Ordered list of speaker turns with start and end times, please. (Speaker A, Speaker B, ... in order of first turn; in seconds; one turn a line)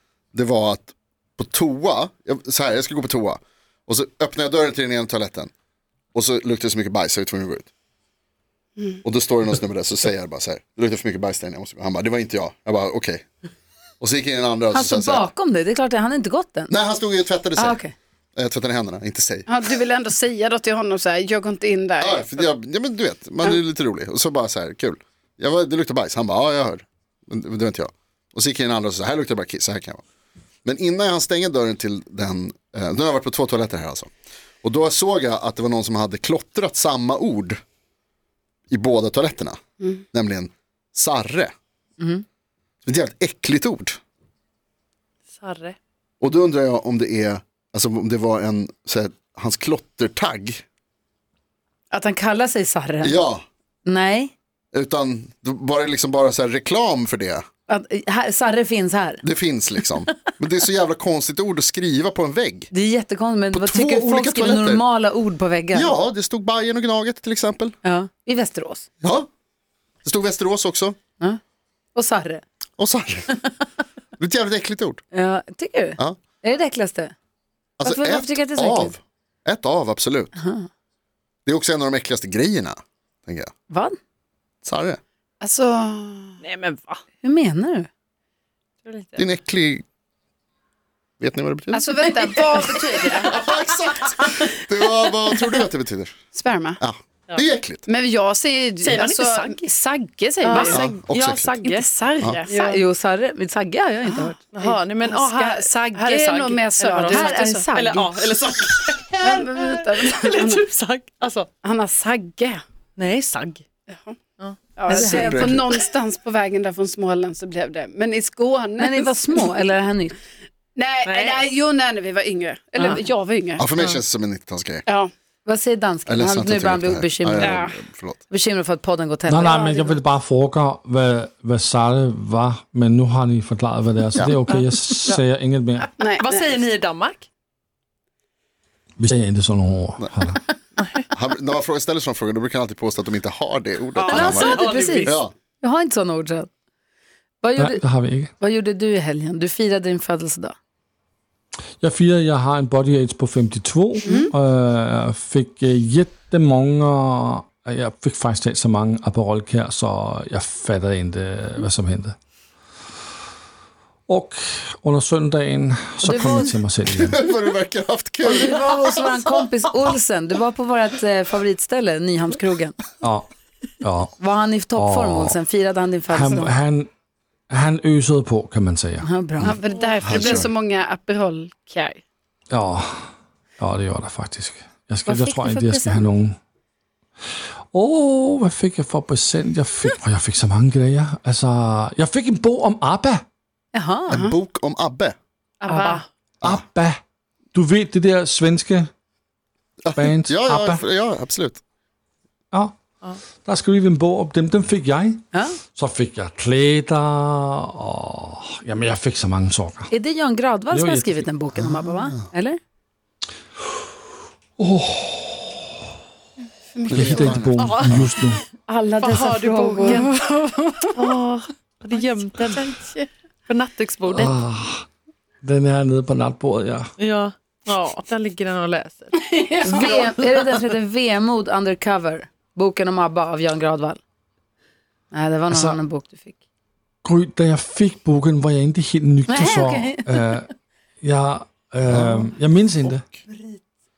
Speaker A: 0.3-5.5
Speaker A: 6.1-7.7
Speaker A: 9.0-13.2
Speaker A: 14.0-15.3
Speaker B: 14.7-16.7
Speaker A: 16.7-17.8
Speaker B: 17.6-17.9
Speaker A: 18.3-19.5
Speaker C: 19.5-22.4
Speaker A: 22.0-30.0
Speaker A: 30.6-34.1
Speaker A: 34.6-37.6
Speaker A: 38.7-39.6
Speaker A: 40.1-41.5
Speaker B: 42.0-42.2
Speaker A: 42.8-44.0
Speaker D: 45.3-45.8
Speaker A: 46.2-50.6
Speaker B: 51.9-53.2
Speaker A: 53.0-53.4
Speaker B: 53.8-54.3
Speaker A: 54.7-57.5
Speaker B: 57.7-59.2
Speaker A: 59.2-62.7
Speaker B: 62.7-65.9
Speaker A: 63.5-64.8
Speaker A: 65.7-67.8
Speaker B: 67.8-68.9
Speaker A: 69.0-69.3
Speaker A: 70.0-71.0
Speaker B: 71.9-72.4
Speaker A: 72.8-73.3
Speaker A: 74.2-75.0
Speaker B: 75.1-77.1
Speaker A: 77.8-80.3
Speaker B: 77.8-78.9
Speaker B: 80.4-80.7
Speaker A: 81.5-83.5
Speaker B: 83.7-84.0
Speaker A: 84.6-85.0
Speaker C: 85.4-86.3
Speaker D: 86.4-87.0
Speaker B: 87.2-87.9
Speaker D: 88.8-89.2
Speaker A: 89.2-89.8
Speaker A: 91.2-91.8
Speaker C: 91.7-93.2
Speaker D: 92.2-94.3
Speaker A: 93.2-96.2
Speaker C: 96.3-96.8
Speaker A: 96.8-97.8
Speaker C: 97.9-100.9
Speaker D: 98.8-99.7
Speaker D: 100.4-101.9
Speaker A: 100.7-101.5
Speaker C: 101.6-102.8
Speaker B: 102.5-104.4
Speaker C: 104.0-107.7
Speaker D: 104.5-111.5
Speaker B: 107.1-108.2
Speaker C: 109.2-110.6
Speaker C: 111.6-112.6
Speaker D: 113.0-113.6
Speaker C: 113.9-114.2
Speaker D: 114.4-115.1
Speaker C: 114.8-119.5
Speaker B: 114.9-115.5
Speaker A: 115.0-115.6
Speaker B: 118.8-120.1
Speaker C: 120.8-123.7
Speaker D: 121.0-121.5
Speaker A: 123.6-124.8
Speaker C: 124.8-125.1
Speaker B: 125.4-127.7
Speaker A: 126.1-128.2
Speaker C: 127.4-127.7
Speaker B: 128.3-129.9
Speaker E: 129.3-135.9
Speaker C: 129.4-129.9
Speaker C: 136.0-136.3
Speaker D: 136.2-137.2
Speaker E: 139.0-140.4
Speaker D: 140.8-141.0
Speaker A: 141.1-145.3
Speaker D: 143.9-145.2
Speaker B: 144.1-146.5
Speaker B: 147.4-147.8
Speaker E: 147.6-148.3
Speaker B: 148.4-150.5
Speaker E: 151.8-162.2
Speaker C: 154.0-154.3
Speaker E: 164.1-167.2
Speaker B: 166.0-166.5
Speaker A: 166.9-169.4
Speaker B: 168.2-172.8
Speaker E: 173.0-173.3
Speaker E: 173.8-174.1
Speaker B: 174.2-176.5
Speaker E: 174.7-175.4
Speaker E: 176.1-176.9
Speaker E: 177.5-179.1
Speaker B: 179.0-179.5
Speaker C: 179.4-182.0
Speaker A: 180.0-180.5
Speaker E: 182.5-186.4
Speaker C: 185.1-186.0
Speaker E: 187.7-193.2
Speaker B: 193.7-194.2
Speaker A: 194.1-195.2
Speaker C: 195.6-196.0
Speaker B: 195.7-196.0
Speaker D: 195.8-196.0
Speaker E: 196.4-197.0
Speaker E: 197.5-198.9
Speaker A: 199.8-201.6
Speaker E: 199.9-200.8
Speaker E: 203.4-209.9
Speaker B: 205.3-205.6
Speaker B: 209.9-212.6
Speaker E: 210.7-211.3
Speaker A: 211.5-212.2
Speaker E: 214.6-215.6
Speaker C: 216.7-217.4
Speaker A: 216.9-217.7
Speaker E: 216.9-218.4
Speaker D: 217.6-218.1
Speaker B: 218.7-220.1
Speaker D: 219.0-220.1
Speaker C: 219.1-220.9
Speaker D: 220.9-222.7
Speaker C: 222.5-223.0
Speaker D: 223.5-224.3
Speaker E: 224.1-224.9
Speaker E: 225.4-226.9
Speaker D: 227.0-229.2
Speaker C: 229.2-230.1
Speaker B: 229.6-234.0
Speaker D: 229.8-230.5
Speaker B: 235.1-236.4
Speaker E: 235.5-235.8
Speaker E: 237.0-240.4
Speaker B: 239.2-240.3
Speaker E: 241.0-243.0
Speaker A: 241.9-242.1
Speaker B: 243.3-243.6